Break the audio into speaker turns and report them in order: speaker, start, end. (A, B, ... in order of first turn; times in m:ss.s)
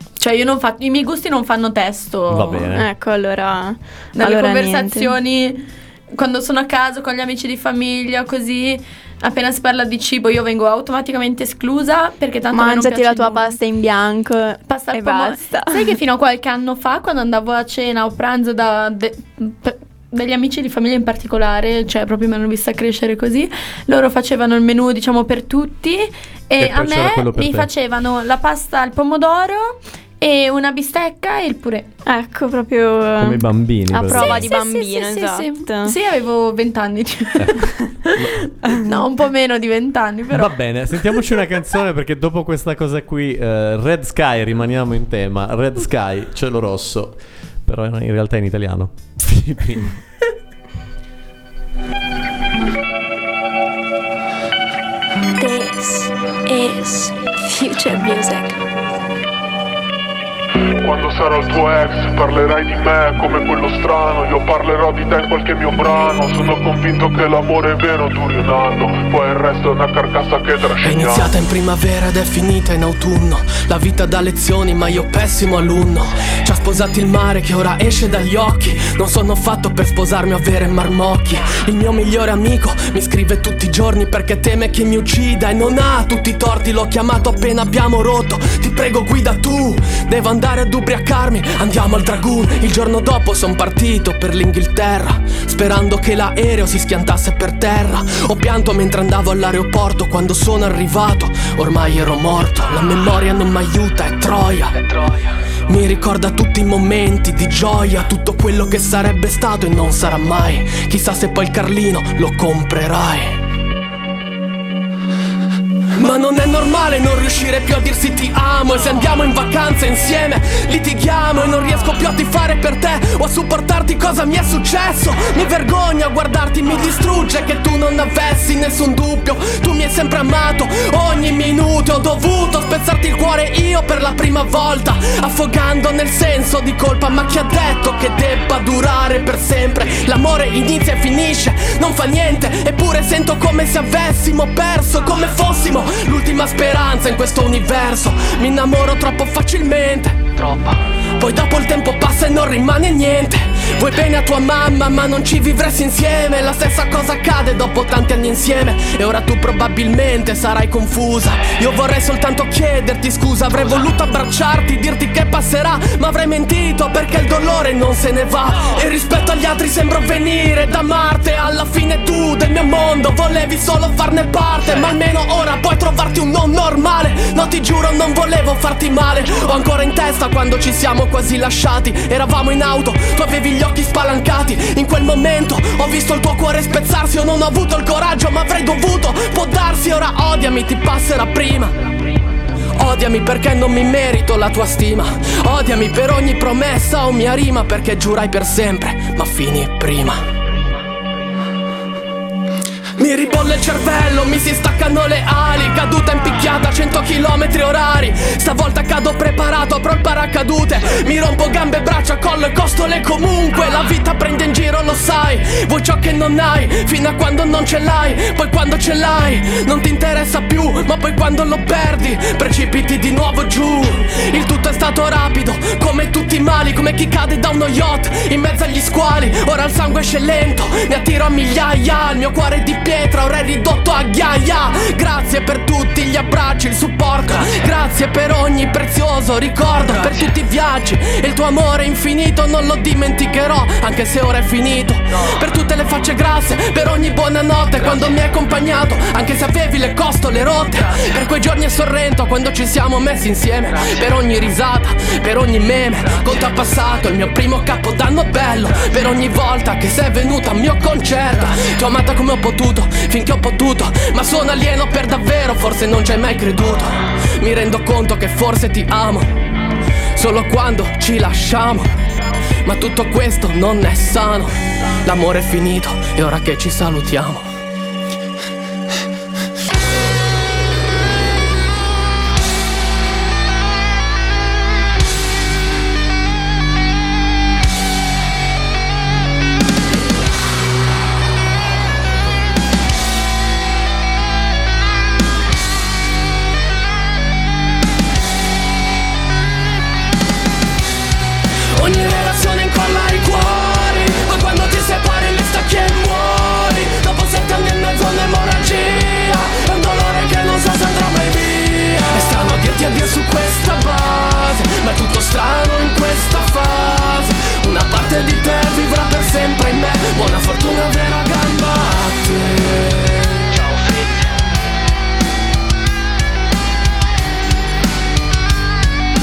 0:00.2-0:02.8 A
0:02.3-0:02.9 B
0:02.7-0:05.1 C
0:04.2-0:13.6 A
0:12.5-0:16.0 C
0:14.7-0:31.9 A
0:26.6-0:27.7 B
0:32.1-0:33.5 C
0:33.2-0:34.5 B
0:33.9-0:40.6 A
0:34.0-0:36.0 C
0:37.4-0:38.8 B
0:40.3-0:50.0 B
0:41.1-0:41.4 A
0:55.4-0:58.6 A
1:00.8-1:11.4 D
1:10.8-1:53.4 E
1:56.0-3:11.8 E
3:12.8-3:20.2 E
3:23.0-4:29.4 E
4:30.2-4:31.9 E
4:32.6-4:37.5 E
5:01.7-5:24.2 E